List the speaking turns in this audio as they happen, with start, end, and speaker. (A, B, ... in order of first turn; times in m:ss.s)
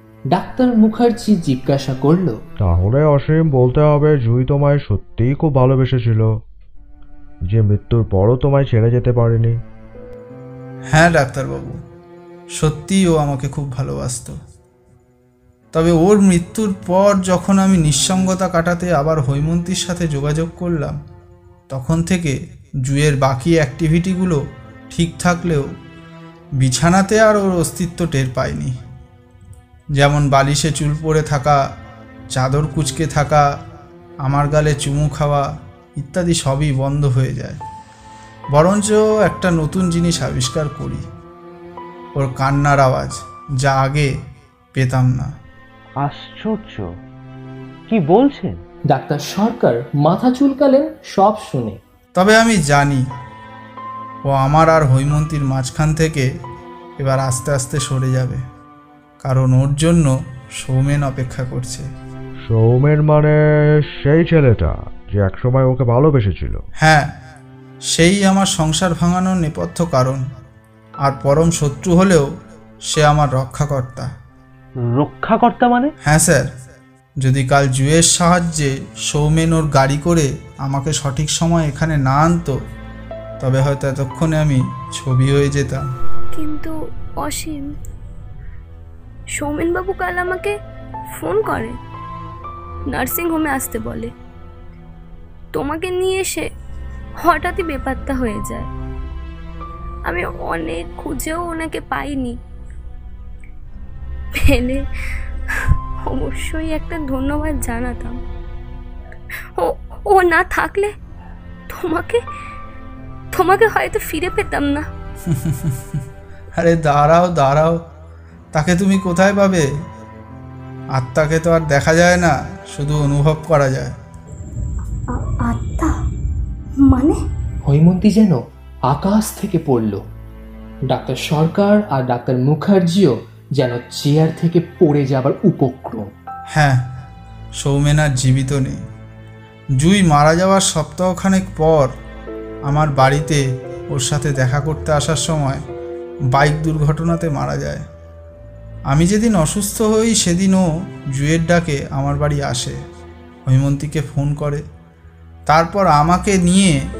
0:00.3-0:02.4 A
0:02.6-0:06.3 B
0:07.5-0:09.6 B
0:10.9-0:11.8 C
0:12.6-0:14.4 C
0:15.7-0:21.0 C
0:21.7-0:25.6 C
0:26.6-0:28.8 C
0:30.0-0:31.6 C
0:32.3-0:33.4 C
0:34.2-0:35.5 C
0:36.0-0:37.6 C
0:38.5-0:41.0 C
0:42.2-0:44.1 C
0:44.7-0:45.3 C
0:46.0-0:46.9 D
0:47.9-0:48.6 D
0:48.9-0:51.8 A
0:52.2-0:53.0 C
0:54.2-0:56.3 C
0:57.0-0:58.4 C
0:59.2-1:01.9 C
1:02.4-1:03.4 B
1:04.0-1:06.6 B
1:06.8-1:07.1 C
1:07.9-1:10.2 C
1:11.0-1:12.3 C
1:12.9-1:14.1 C
1:14.8-1:15.9 D
1:16.0-1:16.5 C
1:17.2-1:22.6 C
1:23.4-1:25.8 C
1:26.3-1:27.7 E
1:29.3-1:30.5 E
1:31.2-1:31.8 E
1:32.9-1:34.1 E
1:35.5-1:36.5 E
1:37.2-1:38.7 E
1:40.1-1:42.4 E
1:44.3-1:44.8 E
1:46.0-1:48.2 E
1:49.6-1:50.9 E
1:51.7-1:52.2 E
1:53.3-1:54.9 E
1:55.3-1:56.0 C
1:56.6-1:57.8 C
1:58.5-1:59.7 C
2:00.9-2:03.9 C
2:05.1-2:05.9 E
2:06.8-2:07.2 E
2:07.6-2:10.0 A
2:10.9-2:16.1 A
2:16.5-2:16.8 C
2:17.6-2:18.8 C
2:19.8-2:21.9 C
2:22.7-2:25.6 C
2:26.3-2:27.8 C
2:28.9-2:32.8 C
2:33.4-2:34.6 C
2:35.5-2:36.8 C